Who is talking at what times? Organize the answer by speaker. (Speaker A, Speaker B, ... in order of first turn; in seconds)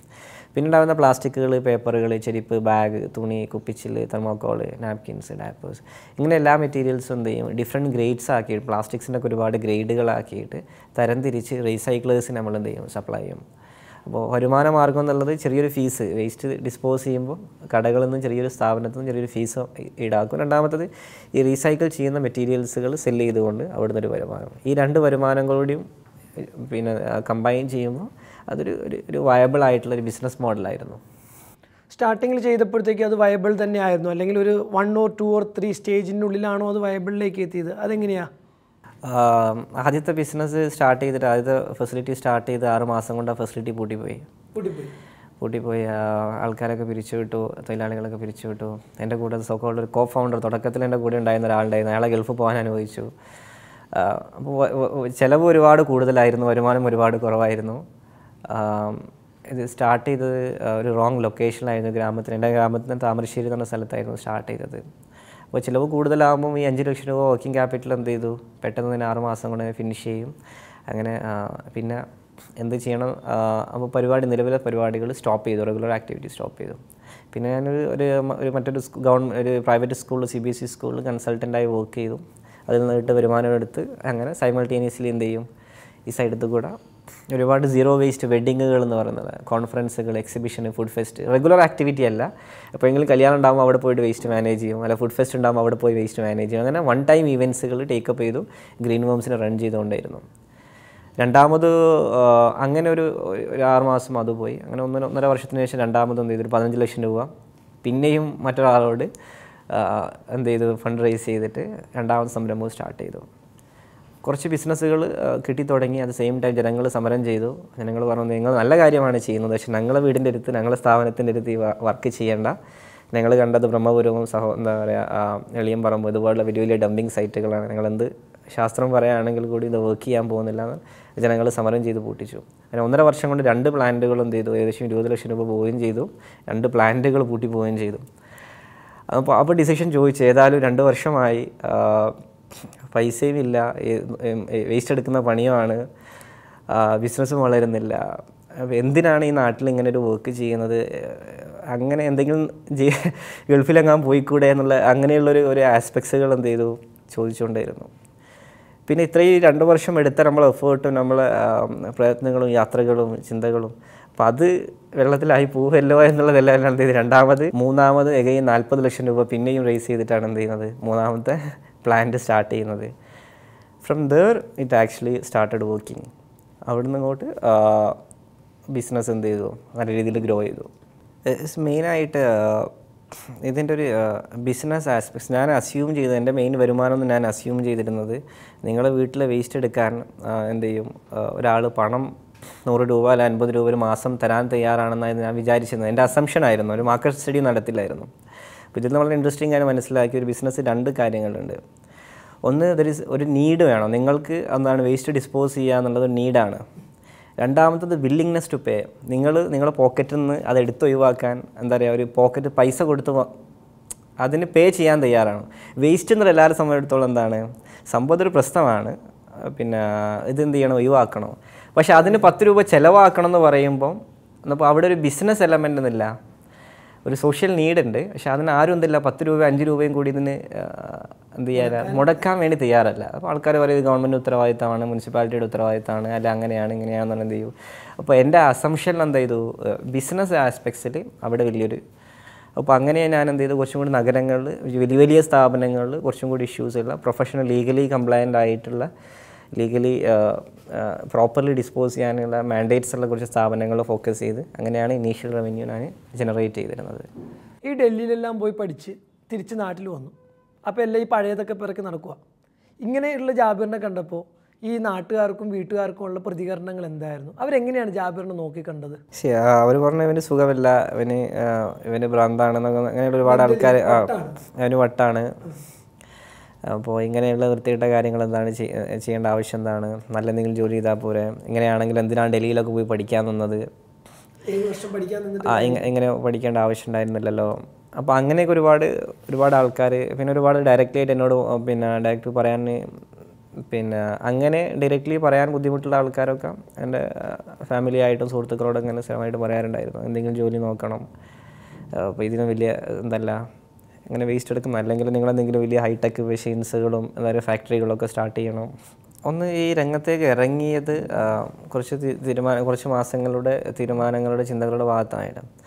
Speaker A: 0.5-13.4, 14.1-25.8, 26.4-31.0, 39.0-44.3, 45.4-53.1, 53.9-57.8, 58.5-64.8, 65.5-70.3, 70.9-72.0, 72.6-76.8, 77.3-85.5, 86.1-86.8, 87.3-100.2, 101.2-107.3, 107.8-109.1, 109.7-113.2, 114.2-122.5, 123.1-138.1, 139.1-142.2, 142.9-145.8, 146.7-157.9, 158.9-172.9, 173.8-176.1, 176.7-178.0, 178.7-180.7, 181.2-182.7, 183.4-192.1, 192.7-198.1, 198.7-201.6, 202.4-206.6, 207.4-213.3, 214.2-226.1, 227.0-241.8, 242.6-248.9, 249.5-257.1, 269.1-275.3, 276.6-283.6, 285.4-292.8, 293.7-301.0, 301.9-303.4, 304.1-308.7, 309.2-315.4
Speaker B: 31.9-38.3, 44.5-44.9, 231.7-232.1, 257.6-260.1, 260.7-262.2, 262.8-269.0, 273.2-274.4, 284.5-285.8